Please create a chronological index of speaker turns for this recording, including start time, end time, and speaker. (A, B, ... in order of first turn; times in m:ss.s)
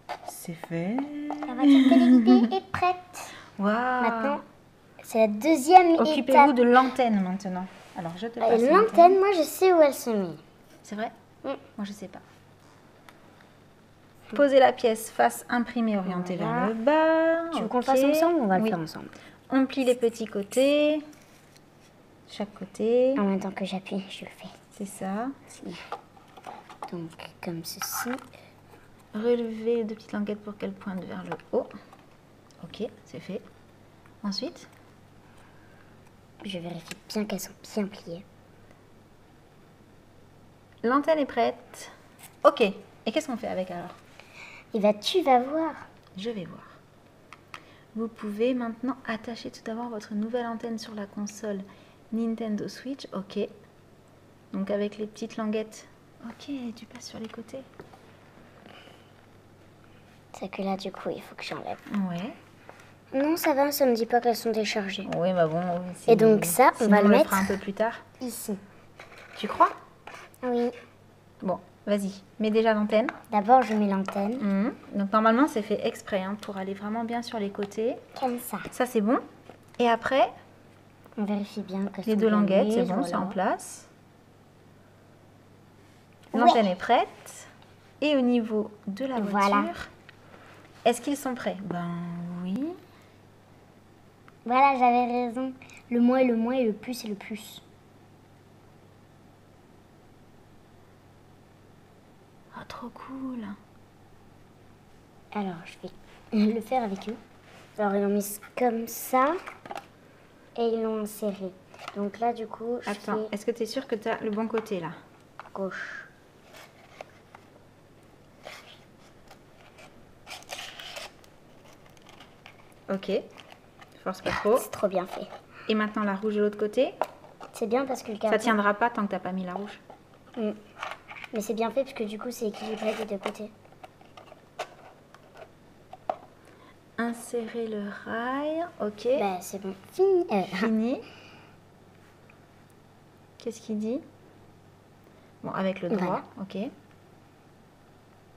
0:00.2-0:02.5 A
0:01.5-0:03.3 B
0:03.6-0:04.4 A
0:04.0-0:04.4 B
0:05.0-0:06.5 B
0:06.0-0:09.2 A
0:08.4-0:10.4 B
0:10.8-0:11.1 A
0:11.8-0:12.2 A
0:14.3-0:18.8 A
0:16.0-0:16.7 B
0:17.5-0:19.1 B
0:19.5-0:21.0 A
0:22.3-0:23.2 A
0:23.2-0:24.5 B
0:24.7-0:25.3 A
0:25.5-0:25.9 B
0:26.9-0:28.2 B
0:29.1-0:31.7 A
0:32.6-0:33.4 A
0:34.2-0:34.7 A
0:36.4-0:38.2 B
0:40.8-0:44.0 A
0:44.7-0:45.9 B
0:46.1-0:46.8 A
0:47.9-0:53.5 A
0:54.5-0:57.7 A
1:00.3-1:01.8 B
1:01.9-1:02.4 A
1:03.1-1:05.1 B
1:05.0-1:08.0 A
1:06.1-1:07.6 B
1:08.2-1:08.6 B
1:09.4-1:09.7 A
1:10.4-1:10.7 B
1:11.4-1:13.1 A
1:13.3-1:14.4 B
1:14.4-1:18.0 A
1:18.2-1:18.7 B
1:18.7-1:19.2 A
1:19.8-1:20.3 A
1:21.2-1:23.4 B
1:22.0-1:23.9 A
1:26.3-1:26.7 B
1:26.3-1:29.9 A
1:29.1-1:29.7 B
1:30.8-1:32.8 A
1:34.4-1:37.6 B
1:42.5-1:43.6 A
1:45.3-1:47.2 B
1:47.8-1:49.4 B
1:50.6-1:53.3 B
1:52.8-1:55.0 A
1:55.5-1:56.1 B
2:02.9-2:03.2 A
2:04.0-2:04.6 A
2:04.2-2:05.3 B
2:05.7-2:07.0 A
2:07.5-2:08.6 B
2:08.3-2:09.8 A
2:11.3-2:13.5 B
2:17.0-2:19.2 A
2:19.1-2:20.7 B
2:20.5-2:21.0 A
2:23.4-2:24.0 A
2:25.4-2:26.7 A
2:25.9-2:26.2 B